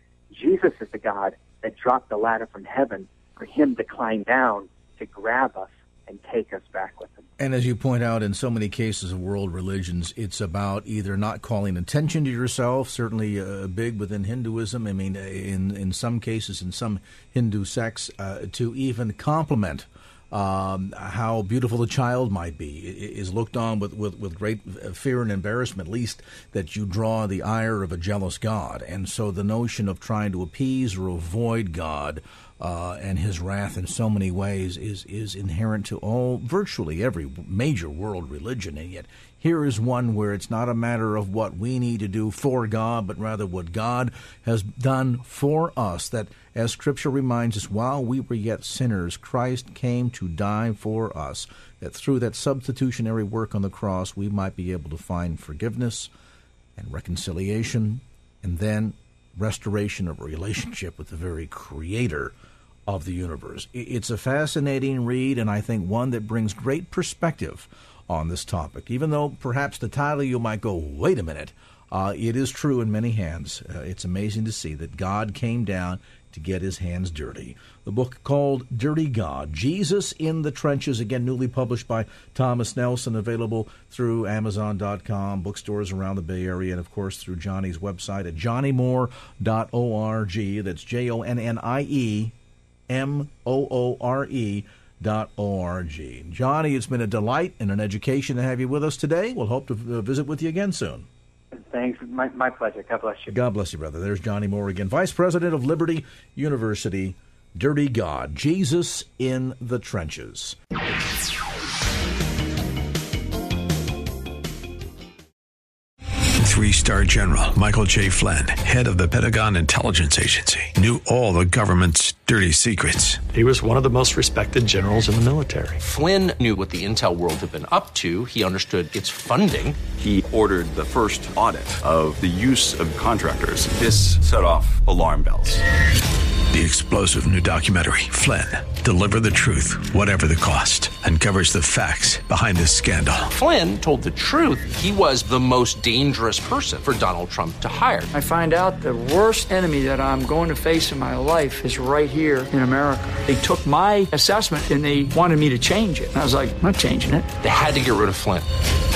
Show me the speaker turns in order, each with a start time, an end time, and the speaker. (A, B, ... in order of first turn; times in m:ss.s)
0:00.3-0:07.3 A
0:07.4-0:56.1 B
0:56.8-1:02.3 B
1:02.9-1:32.3 B
1:32.9-1:41.1 B
1:41.5-1:43.4 A
1:43.3-1:50.6 B
1:56.4-2:03.2 C
2:03.3-2:05.8 D
2:05.8-2:09.8 E
2:09.9-2:15.6 F
2:16.5-2:23.3 C
2:23.3-2:28.1 E
2:28.1-2:37.3 G
2:37.4-2:38.5 E